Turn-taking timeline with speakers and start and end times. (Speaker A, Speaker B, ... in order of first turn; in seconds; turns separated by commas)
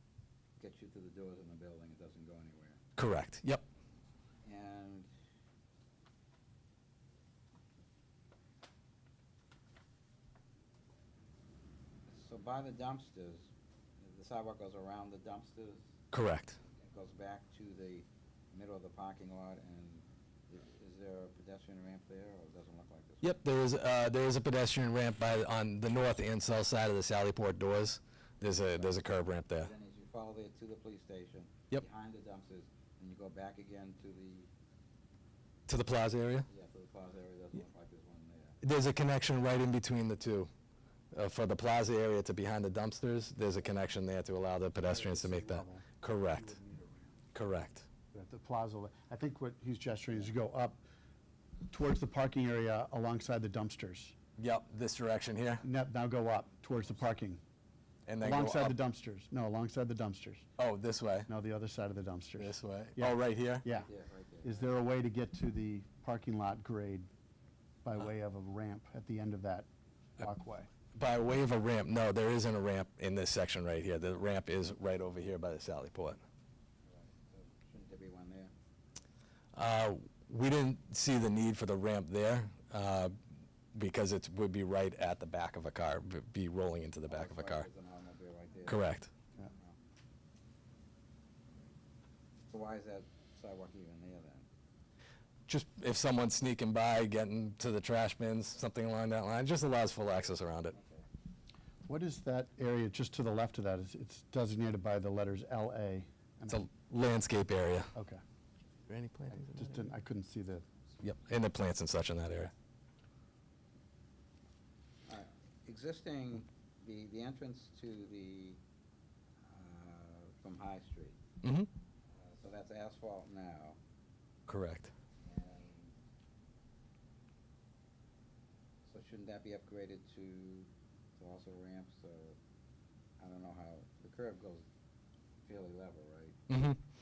Speaker A: 0.6-2.8, Speaker B: 3.0-3.6, Speaker A: 4.4-5.1, Speaker A: 12.1-15.9, Speaker B: 16.1-16.6, Speaker A: 16.6-23.4, Speaker B: 23.2-29.7, Speaker A: 28.7-34.5, Speaker B: 35.7-36.5, Speaker A: 36.5-38.6, Speaker B: 38.6-40.5, Speaker B: 41.1-46.6, Speaker C: 44.8-47.2, Speaker B: 47.3-47.9, Speaker C: 48.1-50.9, Speaker C: 51.7-54.1, Speaker B: 54.4-55.6, Speaker C: 55.6-57.4, Speaker B: 58.1-58.8, Speaker C: 58.2-60.5, Speaker B: 60.6-61.3, Speaker C: 61.3-63.9, Speaker B: 62.4-63.7, Speaker A: 63.8-64.7, Speaker C: 64.4-67.1, Speaker C: 67.8-70.7, Speaker B: 71.0-76.2, Speaker A: 76.9-78.5, Speaker B: 79.5-83.1, Speaker B: 83.8-87.7, Speaker A: 87.1-89.8, Speaker B: 88.7-89.1, Speaker A: 92.5-94.5, Speaker B: 95.5-100.7, Speaker A: 100.7-101.1, Speaker C: 101.9-106.7, Speaker B: 106.5-107.9, Speaker C: 108.0-108.2, Speaker B: 108.9-109.8, Speaker C: 109.3-110.7, Speaker B: 111.0-112.5, Speaker A: 115.1-118.6, Speaker A: 119.5-121.2, Speaker B: 121.4-121.7, Speaker A: 122.2-123.8, Speaker B: 124.5-124.9, Speaker A: 125.2-126.0, Speaker A: 128.9-132.4, Speaker A: 133.2-134.7, Speaker A: 135.4-136.5, Speaker B: 136.5-136.8